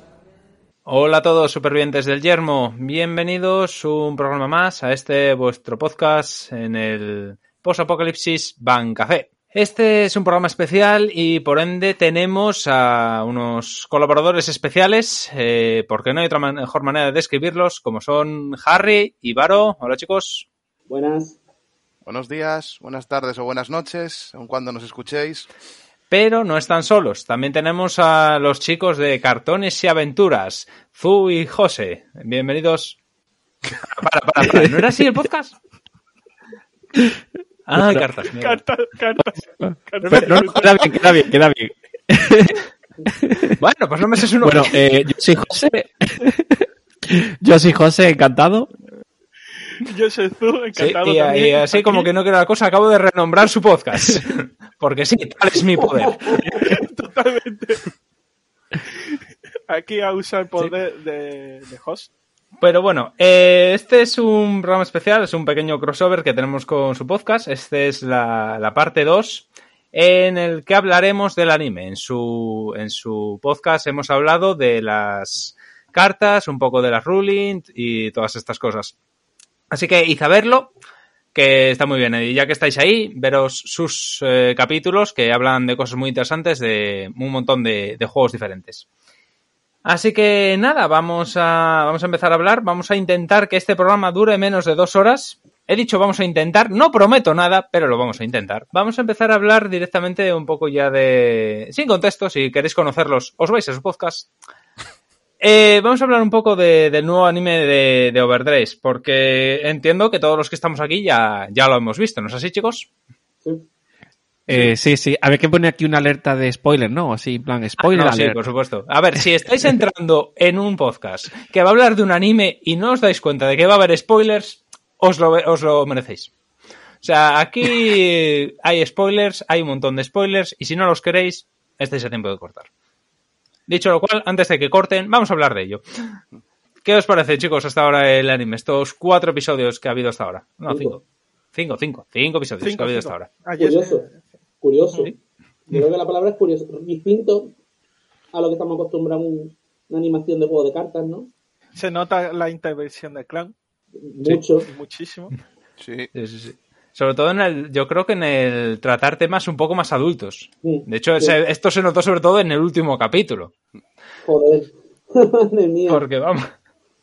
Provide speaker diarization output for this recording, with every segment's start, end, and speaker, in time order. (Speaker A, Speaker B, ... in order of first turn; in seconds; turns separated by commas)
Speaker A: 0.8-20.5, Speaker B: 20.9-21.4, Speaker C: 22.1-25.5, Speaker A: 26.1-33.0, Speaker A: 33.8-35.6, Speaker D: 34.4-34.8, Speaker A: 37.7-38.6, Speaker D: 37.8-38.0, Speaker E: 38.2-40.9, Speaker D: 39.6-42.6, Speaker A: 40.0-40.5, Speaker D: 43.2-43.6, Speaker A: 43.6-44.8, Speaker D: 44.4-48.7, Speaker E: 49.8-52.1, Speaker A: 50.8-56.6, Speaker E: 56.5-57.8, Speaker E: 58.9-62.1, Speaker A: 62.6-79.0, Speaker A: 79.7-80.7, Speaker A: 81.3-88.9, Speaker A: 89.8-104.3, Speaker A: 105.4-112.9, Speaker D: 114.5-118.4, Speaker A: 114.5-114.8, Speaker A: 117.8-126.3, Speaker A: 127.0-132.7, Speaker A: 133.7-135.8, Speaker A: 136.8-141.0, Speaker B: 140.7-141.0, Speaker A: 141.5-143.3, Speaker E: 142.6-144.2, Speaker B: 143.6-144.1, Speaker B: 144.6-145.1, Speaker B: 145.7-147.5, Speaker B: 148.3-151.3, Speaker E: 151.8-153.5, Speaker B: 154.0-154.7, Speaker E: 154.6-155.3, Speaker C: 155.8-156.1, Speaker A: 156.1-163.5, Speaker B: 160.6-161.3, Speaker B: 164.2-166.0, Speaker A: 165.9-166.5